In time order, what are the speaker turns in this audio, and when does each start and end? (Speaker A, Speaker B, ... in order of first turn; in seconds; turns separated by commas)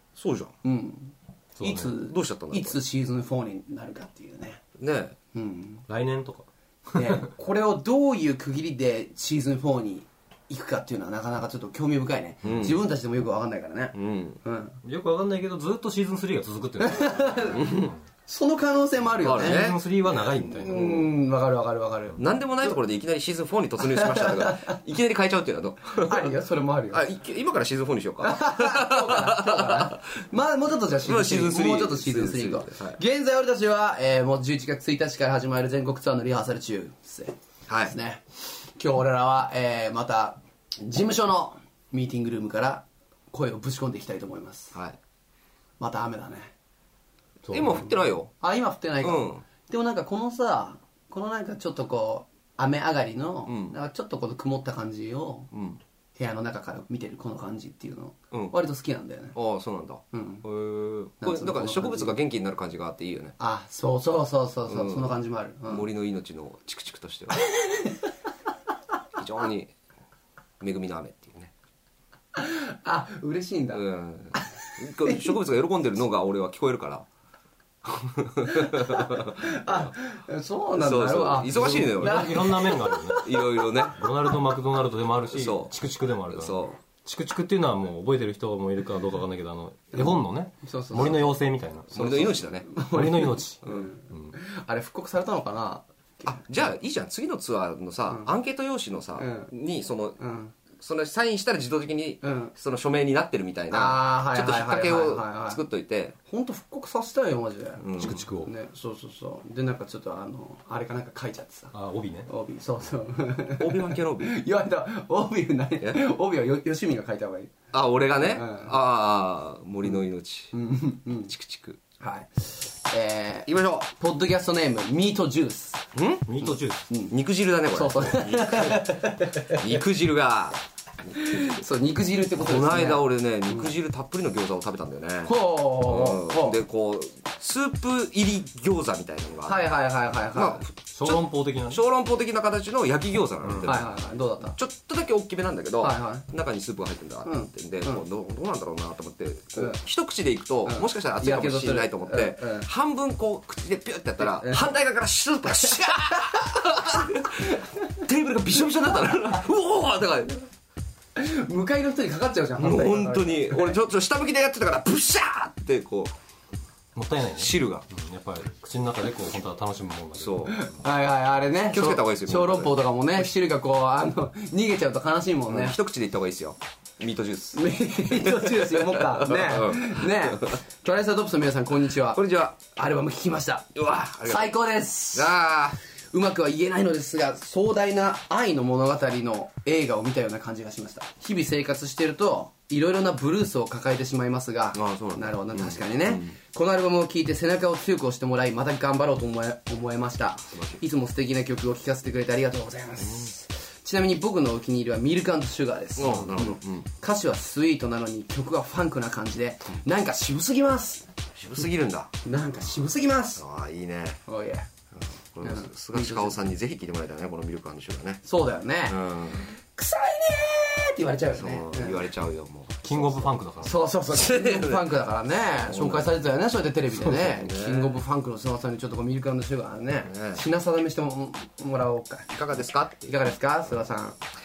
Speaker A: 0.1-0.5, Speaker B: 0.6-4.6, Speaker C: 1.6-2.0, Speaker A: 2.0-2.8, Speaker A: 4.8-5.2, Speaker B: 5.3-5.8, Speaker C: 5.9-7.2, Speaker B: 6.9-14.8, Speaker A: 12.4-12.8, Speaker A: 13.9-14.4, Speaker C: 14.8-17.8, Speaker B: 16.8-19.7, Speaker A: 17.5-17.9, Speaker A: 19.2-19.8, Speaker C: 19.3-20.9, Speaker B: 20.3-22.8, Speaker A: 20.7-21.1, Speaker A: 22.2-26.3, Speaker B: 23.8-24.8, Speaker B: 26.0-27.1, Speaker A: 26.9-30.0, Speaker B: 28.2-38.2, Speaker A: 31.0-33.0, Speaker A: 37.7-37.9, Speaker B: 38.8-44.7, Speaker B: 45.8-46.5, Speaker C: 47.4-47.8, Speaker A: 47.5-48.3, Speaker B: 48.4-55.5, Speaker A: 49.0-49.4, Speaker A: 53.5-53.7, Speaker A: 55.5-55.8, Speaker B: 56.1-59.4, Speaker A: 59.3-63.4, Speaker B: 60.1-60.4, Speaker B: 61.2-62.1, Speaker B: 63.4-65.8, Speaker A: 64.7-65.1, Speaker A: 65.7-67.4, Speaker B: 67.3-68.0, Speaker A: 69.2-69.7, Speaker A: 70.6-71.5, Speaker B: 72.3-75.3, Speaker A: 73.7-77.0, Speaker A: 77.8-79.9, Speaker B: 78.5-83.9, Speaker A: 80.7-82.6, Speaker C: 81.6-83.3, Speaker A: 83.1-84.0, Speaker C: 83.9-92.3, Speaker A: 85.3-85.7, Speaker A: 86.3-86.8, Speaker B: 89.9-91.3, Speaker A: 91.9-92.6, Speaker B: 91.9-96.6, Speaker C: 92.8-94.3, Speaker A: 96.3-100.2, Speaker B: 99.2-99.5, Speaker B: 100.2-100.5, Speaker A: 100.8-106.2, Speaker B: 102.2-102.5, Speaker B: 103.7-105.6, Speaker B: 106.2-111.7, Speaker A: 107.8-108.2, Speaker C: 108.0-108.5, Speaker C: 111.7-112.3, Speaker B: 112.3-117.5, Speaker A: 113.6-114.3, Speaker A: 117.7-120.5, Speaker B: 118.2-118.7, Speaker B: 120.5-121.3, Speaker A: 121.3-121.8, Speaker B: 122.0-125.8, Speaker A: 123.5-123.9, Speaker A: 125.9-126.2, Speaker C: 126.3-126.9, Speaker B: 126.4-127.1, Speaker A: 127.1-131.5, Speaker B: 127.7-129.7, Speaker B: 131.1-133.7, Speaker A: 132.3-139.7, Speaker B: 135.2-136.6, Speaker B: 139.4-140.6, Speaker A: 140.3-143.9, Speaker C: 140.9-141.8, Speaker C: 143.4-143.8, Speaker B: 143.6-144.6, Speaker A: 144.6-160.4, Speaker B: 145.8-146.2, Speaker B: 147.2-148.0, Speaker B: 150.7-152.7, Speaker B: 154.2-154.7, Speaker B: 156.1-156.5, Speaker B: 157.4-157.6, Speaker B: 161.2-163.8, Speaker A: 162.6-166.1, Speaker C: 166.9-170.6, Speaker A: 167.3-167.8, Speaker A: 170.2-170.6, Speaker B: 170.4-175.8, Speaker A: 171.6-172.8, Speaker A: 175.5-180.6, Speaker B: 177.5-183.7, Speaker A: 182.1-182.6, Speaker A: 183.7-184.5, Speaker B: 184.2-185.3, Speaker A: 185.1-185.8, Speaker B: 186.1-211.1, Speaker A: 194.7-196.3, Speaker A: 200.5-200.8, Speaker A: 203.0-203.3, Speaker A: 205.9-206.9, Speaker A: 211.3-212.1, Speaker B: 212.2-213.4, Speaker A: 213.4-214.2, Speaker B: 214.3-214.7, Speaker A: 214.9-218.2, Speaker B: 215.4-216.4, Speaker B: 218.2-222.1, Speaker A: 218.8-219.5, Speaker A: 221.3-223.3, Speaker C: 222.8-223.8, Speaker B: 223.6-232.3, Speaker A: 224.1-225.0, Speaker A: 225.5-226.2, Speaker A: 226.9-228.0, Speaker A: 230.1-230.4, Speaker A: 232.3-233.1, Speaker B: 233.0-234.2